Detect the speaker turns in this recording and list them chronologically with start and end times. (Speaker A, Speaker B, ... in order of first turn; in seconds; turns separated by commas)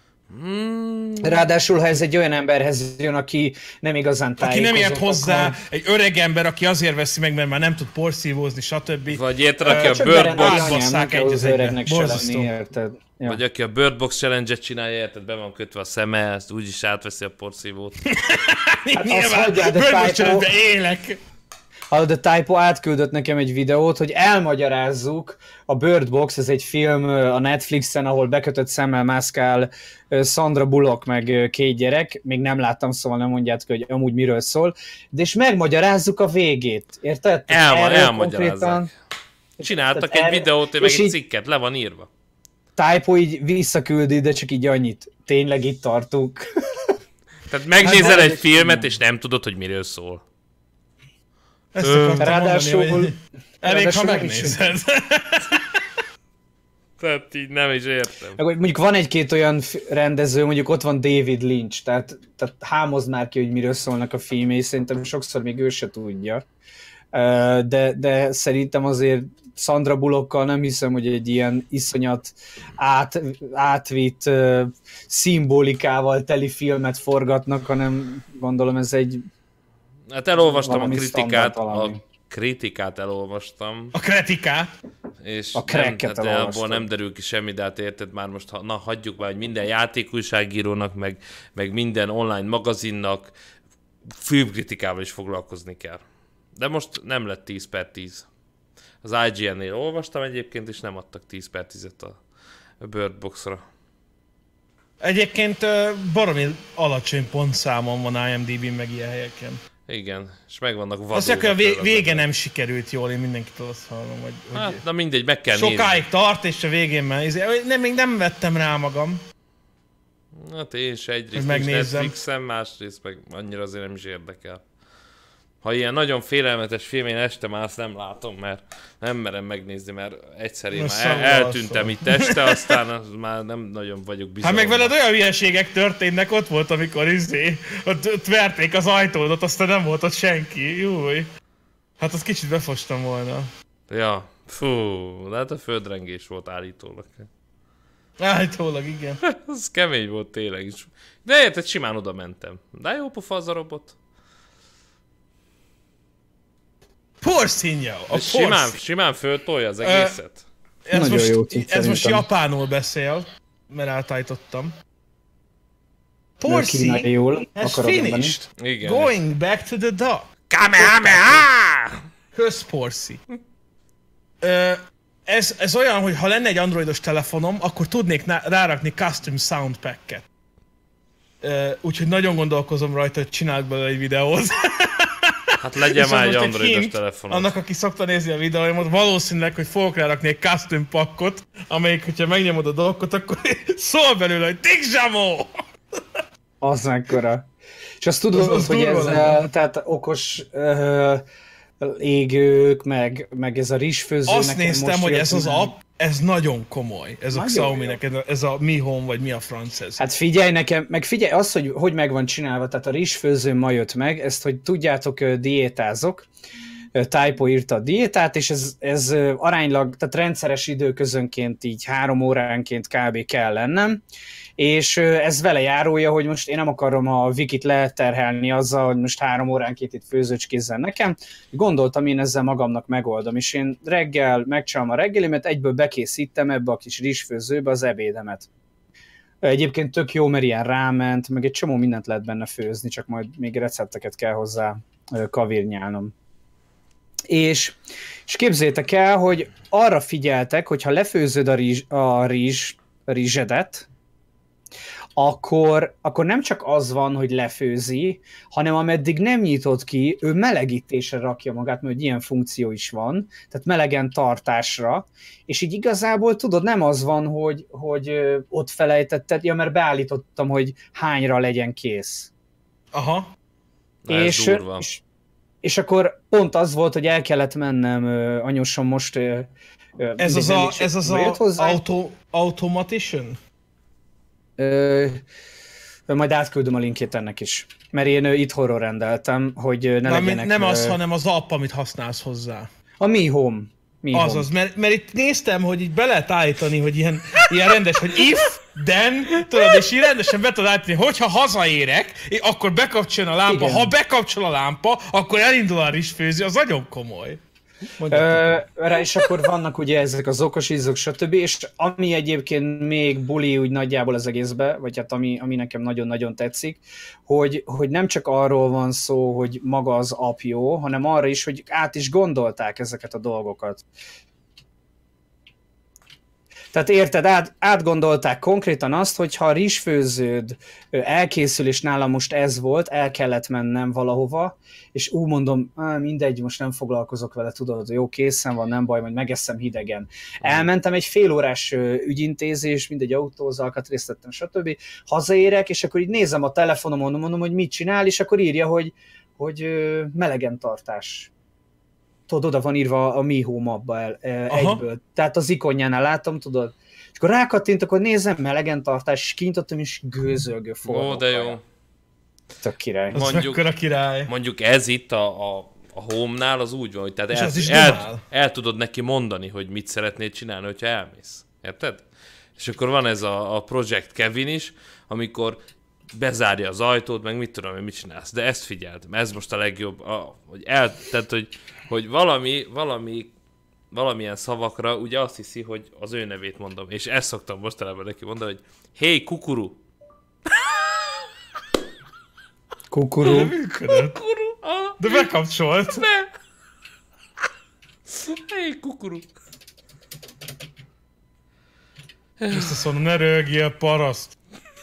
Speaker A: 0.3-1.4, Speaker B: 1.2-5.5, Speaker C: 4.4-12.5, Speaker A: 9.1-10.7, Speaker B: 9.7-13.4, Speaker A: 13.2-18.0, Speaker C: 18.0-21.2, Speaker B: 19.0-20.5, Speaker B: 21.9-38.9, Speaker A: 37.5-38.9, Speaker B: 39.6-41.1, Speaker A: 39.6-42.1, Speaker B: 42.8-46.5, Speaker A: 47.5-50.2, Speaker C: 47.8-48.3, Speaker B: 47.9-48.9, Speaker C: 51.7-55.8, Speaker B: 51.9-54.6, Speaker A: 51.9-52.2, Speaker A: 57.0-58.4, Speaker B: 58.4-66.4, Speaker B: 67.1-79.2, Speaker A: 80.1-83.9, Speaker B: 80.4-82.0, Speaker C: 83.9-84.7, Speaker A: 85.2-93.3, Speaker B: 85.5-86.8, Speaker A: 94.1-96.0, Speaker A: 96.5-98.2, Speaker A: 99.0-102.2, Speaker A: 102.8-103.6, Speaker C: 105.0-109.6, Speaker A: 109.9-112.2, Speaker C: 111.1-114.8, Speaker A: 114.5-116.0, Speaker C: 115.5-119.2, Speaker A: 120.3-124.6, Speaker C: 121.3-122.1, Speaker A: 125.6-134.9, Speaker C: 130.7-132.8, Speaker C: 134.4-141.3, Speaker C: 142.0-143.5, Speaker A: 143.9-147.3, Speaker C: 148.2-149.2, Speaker A: 149.2-153.9, Speaker C: 157.2-158.8, Speaker A: 158.1-160.4, Speaker C: 159.8-160.2, Speaker C: 160.8-164.7, Speaker B: 160.9-162.2, Speaker C: 166.4-171.4, Speaker B: 166.5-168.3, Speaker A: 168.6-169.1, Speaker A: 170.5-172.0, Speaker C: 172.3-173.2, Speaker C: 174.4-180.2, Speaker C: 181.4-195.6, Speaker A: 185.6-187.5, Speaker B: 196.6-197.5, Speaker B: 198.0-201.2, Speaker C: 198.3-199.5, Speaker B: 201.8-205.7, Speaker C: 204.3-210.0, Speaker B: 207.3-208.0, Speaker B: 210.0-216.3, Speaker B: 216.9-224.0, Speaker B: 224.6-238.5, Speaker B: 239.4-246.1, Speaker B: 247.3-253.9, Speaker B: 255.2-272.3, Speaker C: 272.9-273.3, Speaker A: 274.0-274.9, Speaker B: 274.1-275.0, Speaker B: 275.6-281.8, Speaker C: 280.2-283.4, Speaker B: 284.6-285.2, Speaker B: 286.1-291.0, Speaker C: 290.0-292.7, Speaker B: 293.0-294.5, Speaker C: 294.1-307.4, Speaker B: 303.5-303.9, Speaker C: 308.0-308.6, Speaker B: 308.1-323.8, Speaker B: 326.7-351.3, Speaker B: 352.3-361.6, Speaker C: 354.5-354.8, Speaker A: 360.9-361.6, Speaker B: 362.6-363.2, Speaker C: 363.1-364.3, Speaker A: 363.1-363.6, Speaker A: 364.3-372.0, Speaker C: 367.3-368.2, Speaker A: 372.6-375.6, Speaker A: 376.1-383.3, Speaker A: 383.9-389.8, Speaker B: 392.9-393.5, Speaker C: 393.2-394.2, Speaker A: 393.9-395.3, Speaker C: 395.0-396.0, Speaker A: 395.9-396.3, Speaker A: 398.1-399.2, Speaker A: 402.4-402.7, Speaker C: 402.5-404.4